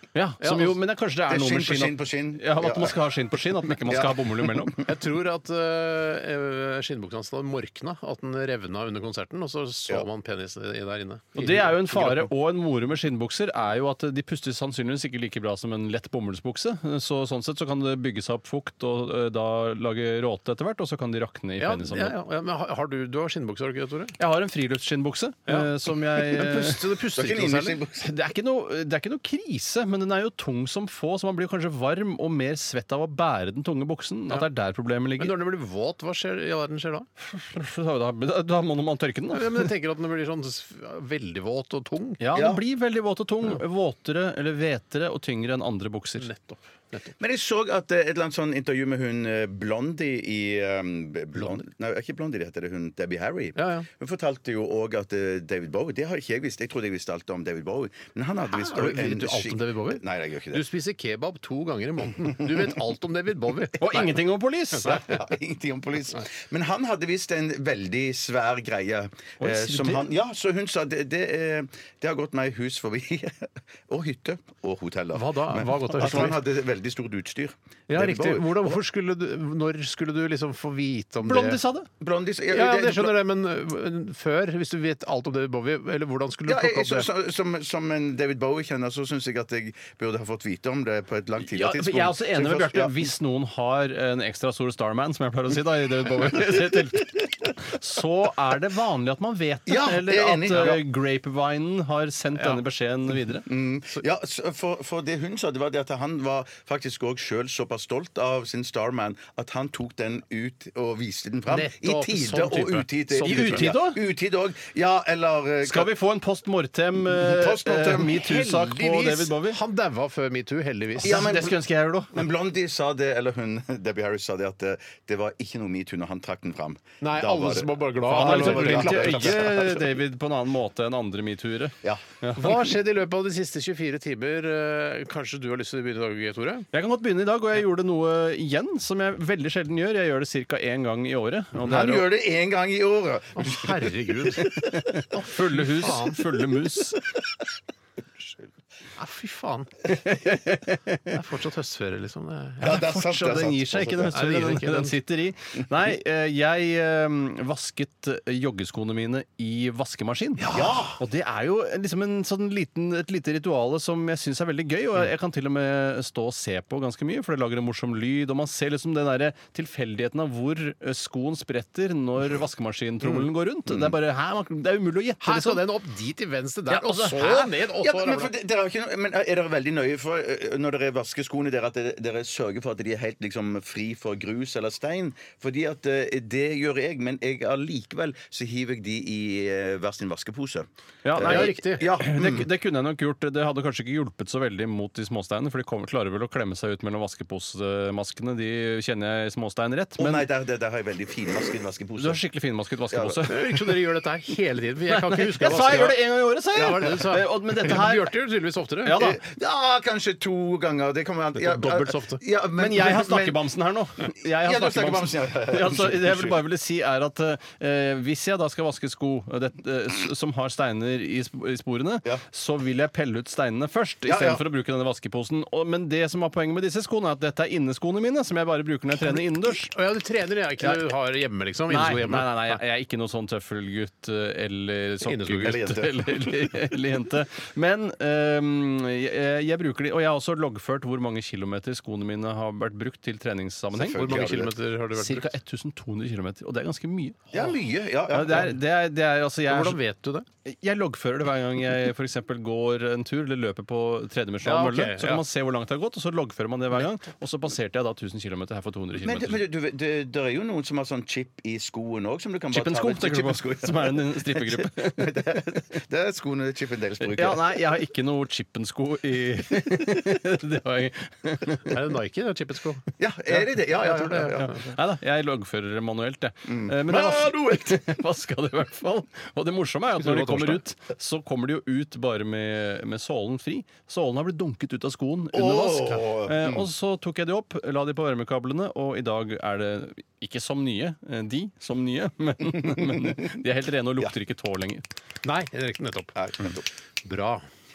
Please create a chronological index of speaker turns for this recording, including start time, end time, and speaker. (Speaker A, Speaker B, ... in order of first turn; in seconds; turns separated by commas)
Speaker A: 0.1-4.8, Speaker B: 0.4-0.8, Speaker C: 1.3-3.0, Speaker C: 3.9-4.8, Speaker B: 4.9-12.3, Speaker A: 11.4-22.1, Speaker B: 21.6-24.1, Speaker A: 24.2-26.8, Speaker B: 26.3-27.8, Speaker C: 27.1-28.1, Speaker A: 28.0-35.4, Speaker B: 35.2-37.1, Speaker A: 37.2-39.7, Speaker B: 39.3-42.2, Speaker A: 42.2-46.3, Speaker C: 42.3-42.6, Speaker B: 46.2-47.2, Speaker C: 47.2-60.6, Speaker B: 53.6-53.9, Speaker B: 58.5-64.2, Speaker C: 62.4-62.7, Speaker A: 63.8-65.1, Speaker C: 64.8-78.8, Speaker A: 69.4-70.1, Speaker B: 75.1-76.4, Speaker B: 77.9-81.6, Speaker A: 81.2-81.9, Speaker C: 82.0-83.2, Speaker B: 82.5-87.1, Speaker C: 86.5-93.1, Speaker A: 91.4-103.5, Speaker C: 99.7-100.8, Speaker C: 103.5-115.9, Speaker B: 111.5-113.7, Speaker A: 113.2-114.0, Speaker A: 115.6-119.6, Speaker C: 117.0-118.2, Speaker B: 118.1-121.3, Speaker A: 121.0-122.2, Speaker C: 121.0-129.8, Speaker B: 127.0-129.7, Speaker A: 128.1-132.5, Speaker B: 132.3-136.7, Speaker A: 136.7-142.1, Speaker C: 141.6-145.0, Speaker B: 143.4-144.5, Speaker A: 144.5-147.0, Speaker B: 145.1-146.2, Speaker B: 149.0-149.7, Speaker A: 149.9-151.2, Speaker B: 151.1-152.8, Speaker C: 152.6-154.2, Speaker A: 152.6-160.5, Speaker B: 154.0-155.0, Speaker B: 160.4-160.9, Speaker C: 160.5-161.0, Speaker A: 161.0-175.6, Speaker B: 175.2-178.3, Speaker A: 176.7-177.5, Speaker C: 177.8-192.5, Speaker A: 191.0-200.3, Speaker B: 191.2-191.8, Speaker C: 200.0-202.2, Speaker A: 202.0-203.7, Speaker C: 202.9-203.3, Speaker B: 203.3-206.0, Speaker A: 204.9-208.2, Speaker B: 206.5-209.0, Speaker C: 206.6-206.9, Speaker A: 208.8-209.2, Speaker C: 208.9-213.5, Speaker B: 211.4-212.2, Speaker A: 212.6-229.7, Speaker C: 214.2-216.4, Speaker C: 224.1-224.4, Speaker B: 229.0-232.6, Speaker A: 231.7-244.2, Speaker B: 235.1-235.8, Speaker C: 235.4-236.2, Speaker C: 243.7-244.5, Speaker B: 243.9-245.3, Speaker A: 244.9-247.3, Speaker C: 247.3-248.6, Speaker A: 248.1-249.8, Speaker B: 249.5-250.3, Speaker A: 250.5-259.4, Speaker B: 254.4-255.2, Speaker C: 259.0-267.6, Speaker A: 262.5-265.2, Speaker A: 267.0-271.8, Speaker B: 271.7-274.6, Speaker C: 273.0-274.6, Speaker A: 274.4-294.8, Speaker C: 276.5-277.9, Speaker B: 280.0-280.6, Speaker C: 285.3-286.7, Speaker C: 292.6-293.2, Speaker B: 295.2-296.2, Speaker C: 296.2-296.7, Speaker B: 297.1-297.4